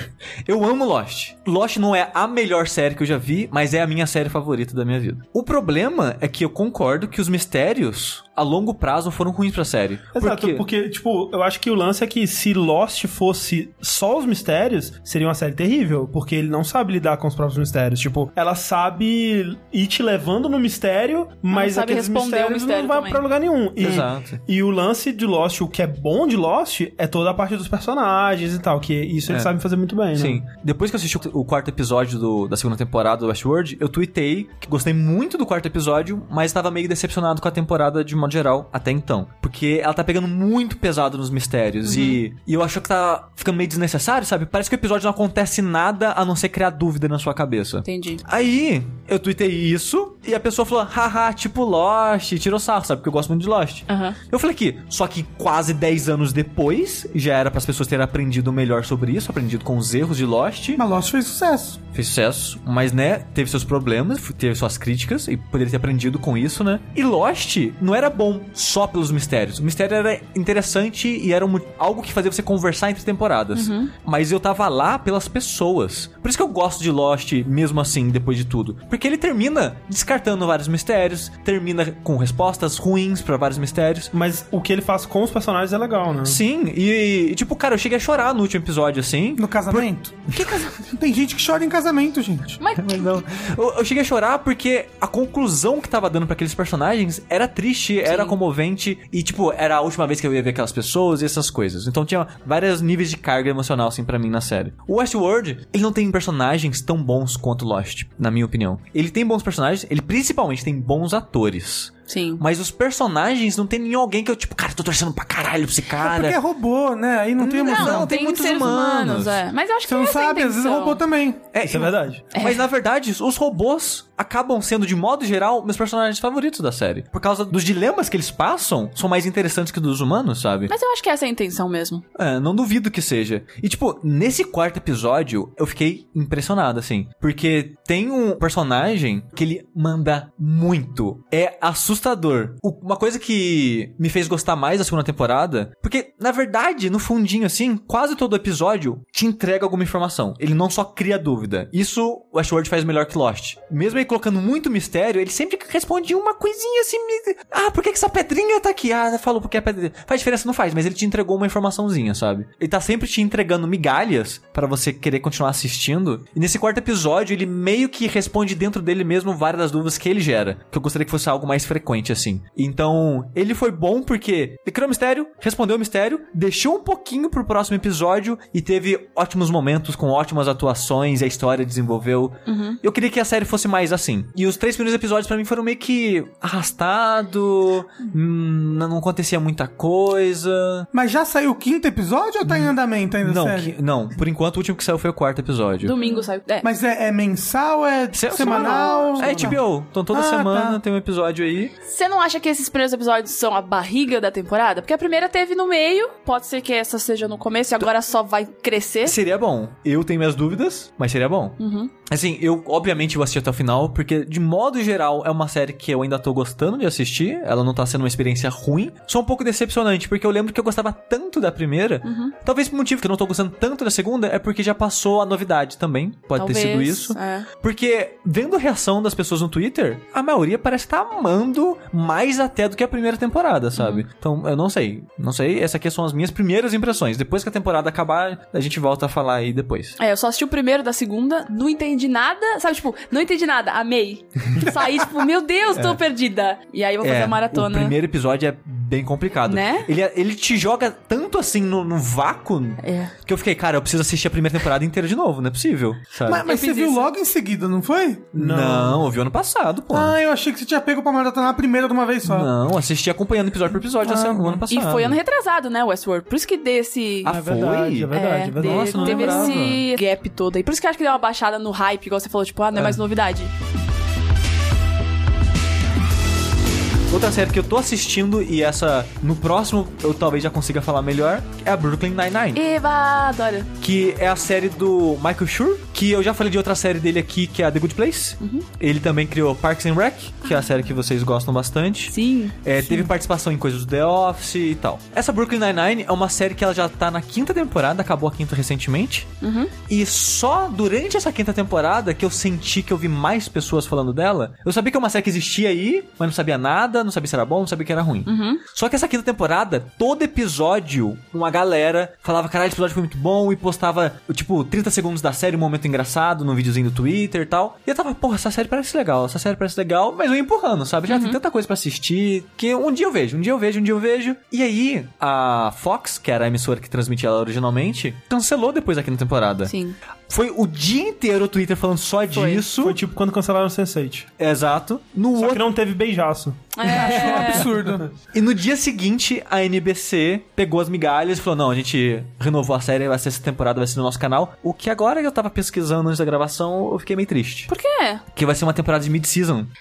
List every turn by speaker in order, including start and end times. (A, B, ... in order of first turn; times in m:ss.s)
0:00.4-0:10.6 A
0:10.1-0:30.4 B
0:21.5-0:23.2 C
0:23.8-0:24.4 A
0:30.1-1:00.8 A
0:41.8-0:42.2 C
0:47.8-0:48.2 C
0:53.9-0:54.2 C
1:00.8-1:01.8 D
1:01.9-1:24.1 A
1:13.5-1:13.9 C
1:24.1-1:26.4 B
1:26.2-1:29.8 A
1:29.4-1:32.6 D
1:30.3-1:30.8 C
1:32.6-1:33.2 C
1:32.8-1:56.4 A
1:38.0-1:38.4 C
1:52.1-1:52.4 C
1:56.0-1:58.1 D
1:57.4-1:59.4 A
1:57.6-2:01.0 C
1:59.8-2:01.4 D
2:01.5-2:10.7 A
2:01.6-2:02.2 B
2:02.3-2:02.6 C
2:10.7-2:12.0 C
2:12.1-3:10.9 A
3:02.4-3:02.8 C
3:10.9-3:13.8 D
3:12.4-3:15.9 A
3:15.8-3:16.7 C
3:16.6-3:19.6 D
3:18.1-3:21.7 A
3:18.3-3:19.5 C
3:20.1-3:20.8 D
3:21.8-3:29.2 C
3:29.0-4:00.0 A
3:31.6-3:31.9 C
3:42.0-3:42.3 C
3:46.4-3:47.5 C
3:53.8-3:54.0 C
4:00.0-4:07.9 C
4:05.7-4:06.0 A
4:07.0-4:16.4 A
4:09.4-4:09.9 C
4:12.8-4:13.1 C
4:16.3-4:18.3 D
4:16.4-4:17.1 C
4:18.3-4:19.1 B
4:18.3-4:20.2 A
4:19.9-4:22.5 D
4:22.2-4:25.2 A
4:24.0-4:24.6 D
4:24.7-4:27.3 C
4:27.2-4:29.8 A
4:27.2-4:29.6 B
4:28.1-4:33.5 C
4:37.1-4:42.6 A
4:42.5-4:43.7 C
4:43.8-4:59.3 A
4:48.4-4:48.6 C
4:52.1-4:53.1 C
4:59.4-4:59.7 C
4:59.9-5:29.7 A
5:08.2-5:08.6 C
5:21.1-5:21.4 C
5:29.6-5:30.0 C
5:30.3-5:33.0 A
5:32.3-5:32.6 C
5:32.8-5:34.3 B
5:34.4-5:35.7 A
5:35.3-5:37.3 B
5:36.7-5:37.7 C
5:36.8-5:38.1 D
5:38.3-5:47.7 A
5:47.7-5:48.2 C
5:48.3-5:49.7 A